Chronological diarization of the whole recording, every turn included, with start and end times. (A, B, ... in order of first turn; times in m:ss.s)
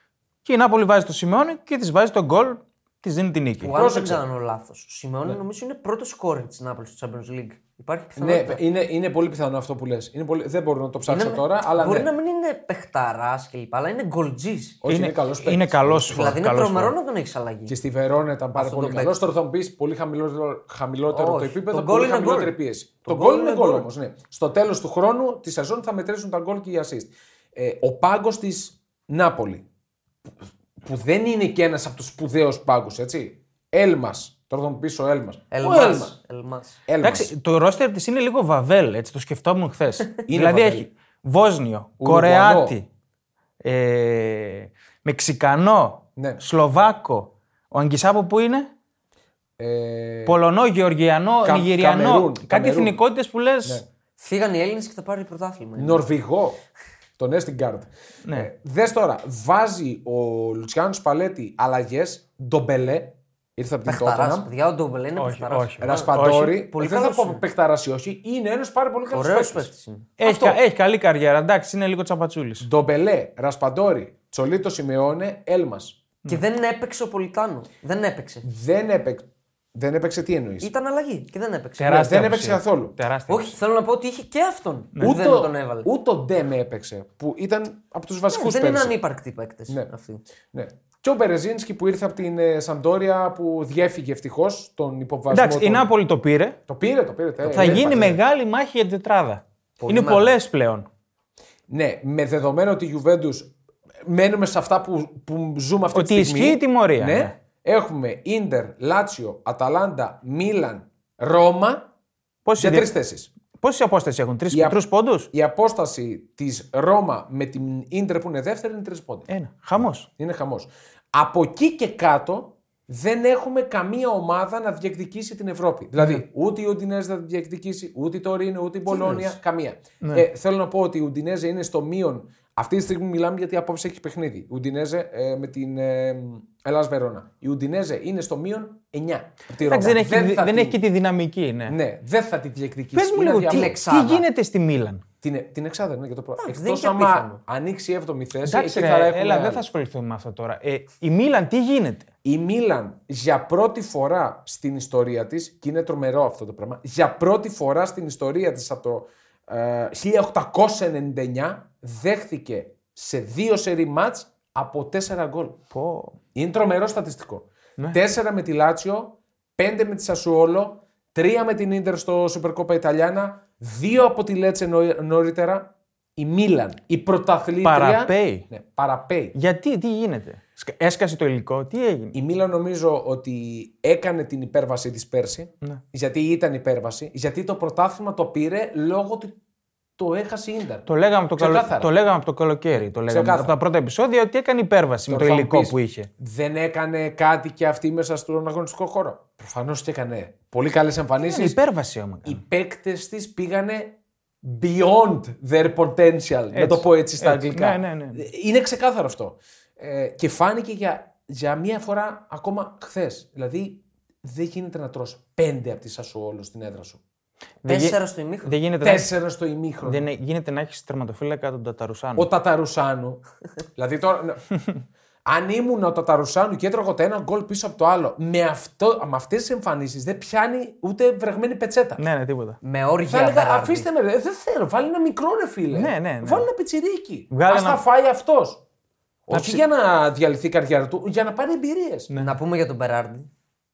0:00.4-0:03.7 A
0:03.6-0:08.6 B
0:03.6-0:04.2 C
0:08.2-0:12.1 C
0:11.1-0:14.8 B
0:14.8-0:16.4 C
0:14.8-0:16.9 A
0:16.1-0:17.7 B
0:17.7-0:29.6 C
0:18.5-0:19.3 B
0:21.1-0:22.6 B
0:23.1-0:23.7 A
0:30.8-0:36.1 C
0:35.5-0:36.8 B
0:36.9-0:37.3 C
0:37.0-0:42.8 A
0:40.3-0:40.9 C
0:42.0-0:42.8 C
0:43.6-0:48.7 A
0:46.2-0:46.4 C
0:49.6-0:50.4 C
0:50.2-0:53.8 A
0:51.4-0:53.0 C
0:54.2-0:56.0 B
0:55.8-0:56.6 C
0:57.2-1:04.5 C
1:03.8-1:07.4 B
1:05.2-1:06.6 A
1:05.8-1:09.7 C
1:09.1-1:10.6 B
1:10.2-1:12.7 A
1:12.6-1:16.0 C
1:16.2-1:18.4 B
1:18.4-1:20.7 C
1:20.6-1:22.0 B
1:21.8-1:23.6 A
1:21.8-1:23.0 C
1:23.3-1:25.9 B
1:25.0-1:29.0 C
1:28.3-1:30.2 B
1:30.5-1:35.9 C
1:35.3-1:36.6 A
1:36.7-1:38.2 C
1:37.4-1:40.8 A
1:39.8-1:40.3 B
1:41.7-1:43.5 C
1:44.0-1:51.9 C
1:45.9-1:47.3 A
1:52.4-1:52.9 A
1:52.6-1:53.3 C
1:53.6-1:55.3 A
1:54.5-1:54.8 C
1:55.3-1:59.3 C
1:59.3-2:00.1 A
2:00.2-2:20.8 C
2:08.9-2:09.4 B
2:19.6-2:21.8 A
2:21.7-2:23.8 C
2:22.9-2:25.0 A
2:23.5-2:24.2 B
2:25.2-2:29.6 C
2:26.4-2:27.4 B
2:28.4-2:32.1 A
2:32.2-2:45.6 C
2:45.7-2:46.2 A
2:46.3-2:59.3 C
2:57.6-2:58.4 A
2:59.3-3:02.1 A
3:02.1-3:09.4 C
3:10.0-3:11.9 C
3:10.9-3:16.1 A
3:13.1-3:13.5 C
3:15.1-3:21.6 C
3:21.2-3:22.4 A
3:22.3-3:37.0 C
3:26.5-3:28.2 A
3:37.6-3:39.1 A
3:37.6-3:38.6 B
3:38.8-3:40.0 C
3:39.8-3:42.3 A
3:42.2-3:43.2 C
3:43.8-3:44.4 C
3:45.2-3:52.0 C
3:52.0-3:52.6 A
3:52.6-3:53.9 B
3:53.1-3:58.6 C
3:55.7-3:56.5 A
3:57.3-3:57.8 A
3:59.3-4:02.1 C
3:59.3-3:59.6 A
4:02.2-4:03.3 B